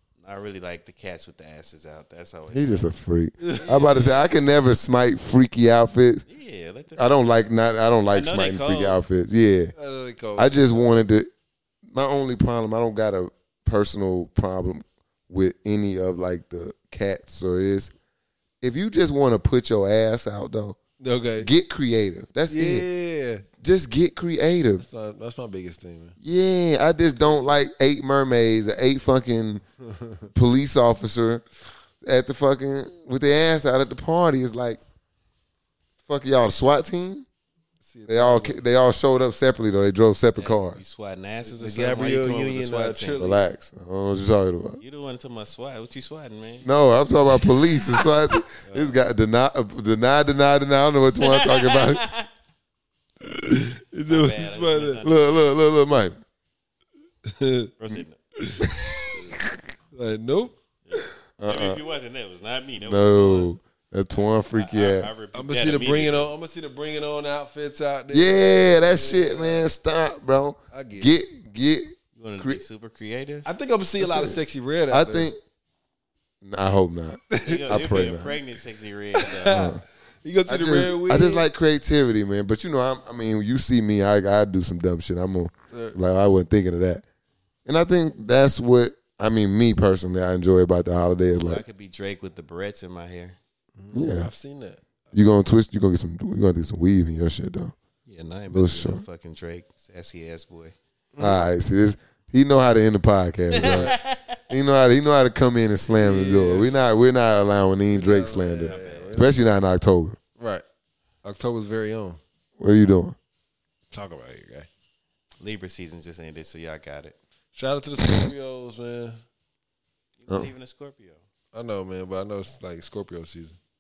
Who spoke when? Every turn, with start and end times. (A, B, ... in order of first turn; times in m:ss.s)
0:00.2-0:02.9 A
0:02.5-0:06.2 B
0:03.4-0:03.7 C
0:03.6-0:04.3 A
0:06.3-0:07.2 A
0:07.0-0:09.7 B
0:08.1-0:09.0 A
0:09.8-0:11.0 C
0:10.4-0:11.3 B
0:11.9-0:17.9 B
0:18.6-0:20.8 B
0:21.0-0:21.5 C
0:21.4-0:22.9 B
0:22.5-0:23.4 C
0:23.6-0:24.8 B
0:24.8-0:26.2 C
0:26.2-0:29.6 B
0:29.8-0:30.3 C
0:30.3-0:31.4 B
0:32.0-0:34.8 B
0:36.1-0:37.3 B
0:37.8-0:38.6 C
0:38.1-0:40.8 B
0:40.4-0:43.3 A
0:41.4-0:43.5 C
0:43.2-0:44.8 B
0:44.8-0:46.7 A
0:46.6-0:52.1 B
0:48.5-0:49.0 A
0:51.2-0:52.3 A
0:53.2-0:55.0 C
0:54.1-0:55.6 A
0:55.0-0:56.2 B
0:57.2-0:57.7 C
0:57.8-0:58.2 A
0:58.4-0:59.1 C
0:58.6-0:59.6 B
0:59.9-1:00.6 C
1:00.9-1:03.5 A
1:01.4-1:01.8 B
1:02.8-1:05.1 B
1:04.1-1:06.3 A
1:05.3-1:09.7 C
1:08.1-1:12.6 B
1:10.7-1:11.1 C
1:12.2-1:13.5 A
1:13.4-1:15.3 C
1:14.0-1:15.4 B
1:16.4-1:18.4 B
1:17.3-1:18.2 C
1:17.4-1:19.8 A
1:19.1-1:21.5 C
1:19.5-1:19.8 B
1:20.5-1:27.0 B
1:25.7-1:26.0 C
1:27.7-1:31.6 B
1:31.3-1:33.4 A
1:33.8-1:35.1 C
1:33.9-1:34.3 B
1:35.1-1:37.7 B
1:38.1-1:40.8 A
1:38.5-1:39.0 B
1:41.1-1:41.5 C
1:41.2-1:44.0 B
1:43.5-1:44.4 A
1:43.6-1:44.0 C
1:44.5-1:50.2 B
1:45.9-1:46.8 C
1:47.9-1:49.4 C
1:48.5-1:49.4 A
1:50.4-1:50.6 C
1:51.2-1:52.2 C
1:52.6-1:53.2 B
1:53.9-1:54.7 C
1:55.4-1:57.2 A
1:57.5-1:59.2 C
1:58.0-1:58.3 B
2:00.2-2:01.2 A
2:01.5-2:03.6 C